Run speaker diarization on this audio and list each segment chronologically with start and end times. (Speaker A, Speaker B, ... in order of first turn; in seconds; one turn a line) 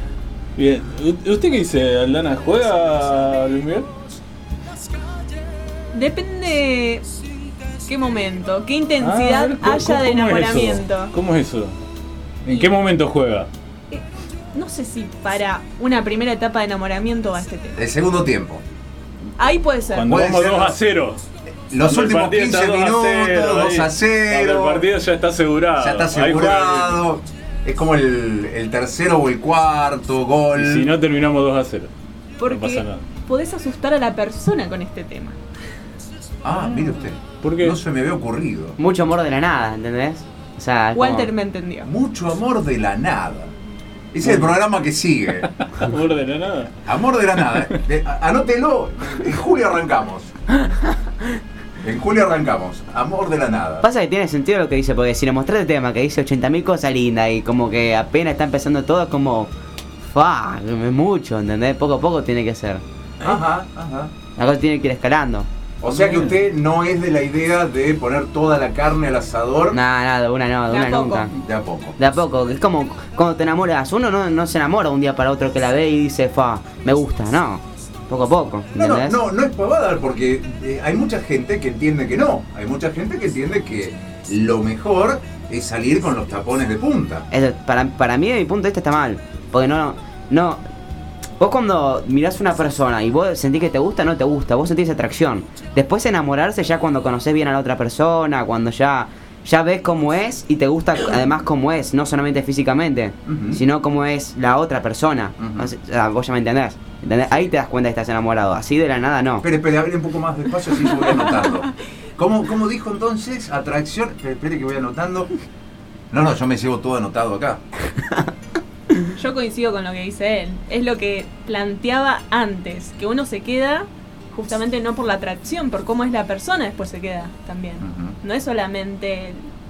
Speaker A: 0.6-3.9
Speaker B: 5.9-7.1
Speaker B: 7.8-11.1
Speaker A: 9.0-11.8
Speaker A: 12.4-13.5
Speaker B: 13.9-17.8
Speaker C: 17.8-18.6
Speaker B: 19.4-20.1
Speaker A: 19.9-21.2
Speaker C: 20.1-20.8
Speaker C: 21.7-24.9
Speaker A: 21.8-27.0
Speaker C: 25.8-30.9
Speaker A: 30.5-31.9
Speaker B: 32.4-35.4
Speaker A: 32.4-33.0
Speaker C: 36.4-38.8
Speaker A: 37.4-37.8
Speaker D: 38.8-41.3
Speaker B: 40.9-41.9
Speaker C: 41.8-43.5
Speaker C: 44.1-45.5
Speaker A: 44.2-44.5
Speaker A: 45.7-46.7
Speaker C: 46.8-50.3
Speaker C: 51.8-53.8
Speaker D: 53.8-62.8
Speaker C: 63.2-64.1
Speaker D: 64.3-65.5
Speaker C: 65.8-69.8
Speaker A: 65.9-66.3
Speaker D: 69.7-71.3
Speaker B: 70.7-71.2
Speaker C: 71.3-72.0
Speaker D: 72.0-79.2
Speaker C: 78.8-87.2
Speaker D: 87.3-90.6
Speaker D: 91.4-109.4
Speaker C: 103.2-103.6
Speaker C: 105.4-105.7
Speaker C: 109.4-115.3
Speaker C: 116.1-117.6
Speaker B: 119.1-129.4
Speaker C: 127.8-128.2